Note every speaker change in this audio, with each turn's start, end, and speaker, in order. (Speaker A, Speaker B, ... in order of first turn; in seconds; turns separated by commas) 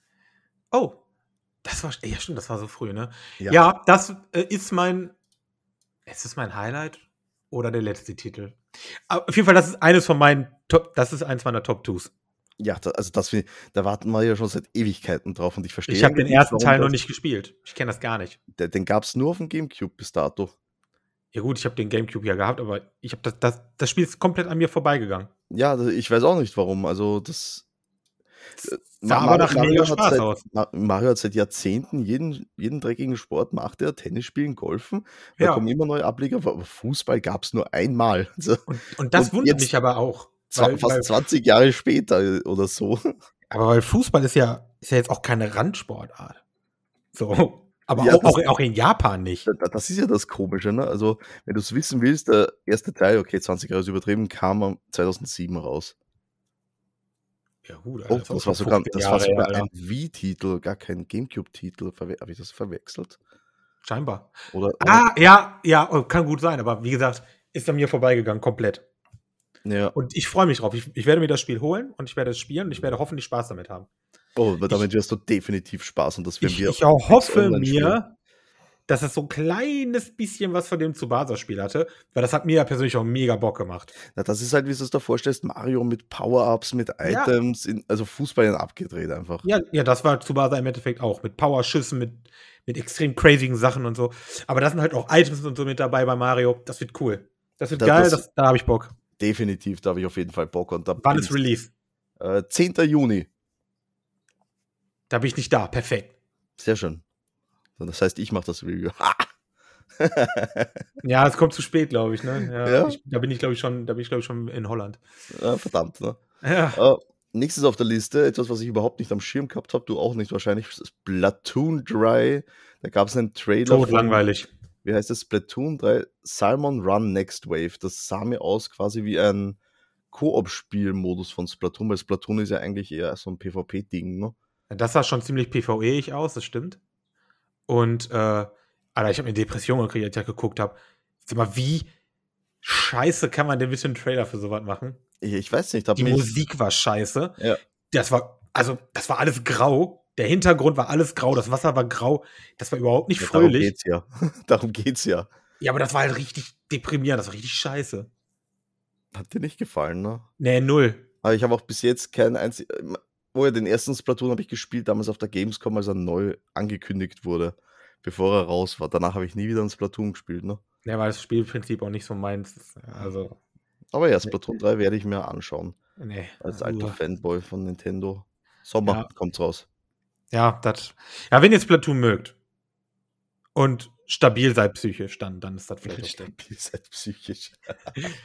Speaker A: 0.7-1.0, Speaker A: 1.6-5.1, Speaker A: 6.1-8.6, Speaker A: 9.1-12.1, Speaker B: 12.6-16.9, Speaker A: 15.9-18.4, Speaker B: 18.5-20.5, Speaker A: 21.3-25.3, Speaker B: 25.5-27.6, Speaker B: 28.6-39.7, Speaker A: 29.0-30.4, Speaker A: 35.4-35.6, Speaker A: 38.7-41.1, Speaker B: 40.5-43.1, Speaker A: 43.5-46.4, Speaker A: 47.1-49.5, Speaker B: 48.0-48.4, Speaker B: 49.5-55.9, Speaker A: 57.6-59.7, Speaker B: 58.1-63.2, Speaker A: 63.8-68.8, Speaker B: 64.5-65.0, Speaker B: 69.6-69.9, Speaker A: 69.9-73.9, Speaker B: 74.3-78.0, Speaker A: 76.4-78.1, Speaker A: 78.9-83.9, Speaker B: 84.1-89.4, Speaker A: 87.0-87.3, Speaker A: 89.4-98.9, Speaker B: 97.8-98.2, Speaker B: 99.2-101.4, Speaker A: 101.0-101.7, Speaker B: 102.2-103.3, Speaker A: 105.1-106.1, Speaker B: 106.6-107.0, Speaker B: 107.8-109.3, Speaker B: 110.0-110.7, Speaker A: 111.0-115.0, Speaker B: 112.6-113.0, Speaker B: 115.3-116.2, Speaker A: 116.4-116.8, Speaker B: 116.7-124.2, Speaker A: 123.6-124.5, Speaker B: 124.8-129.6, Speaker B: 130.1-134.3, Speaker A: 134.7-136.8, Speaker A: 137.7-141.9, Speaker A: 142.6-145.0, Speaker B: 145.2-146.3, Speaker A: 145.9-147.4, Speaker A: 147.9-153.7, Speaker B: 153.2-155.3, Speaker A: 155.6-158.1, Speaker B: 159.1-160.3, Speaker A: 160.4-161.1, Speaker B: 161.2-170.6, Speaker A: 170.8-173.4, Speaker B: 173.9-175.8, Speaker A: 176.0-177.0, Speaker B: 176.4-179.7, Speaker A: 180.3-182.3, Speaker A: 183.5-186.3, Speaker B: 185.8-188.1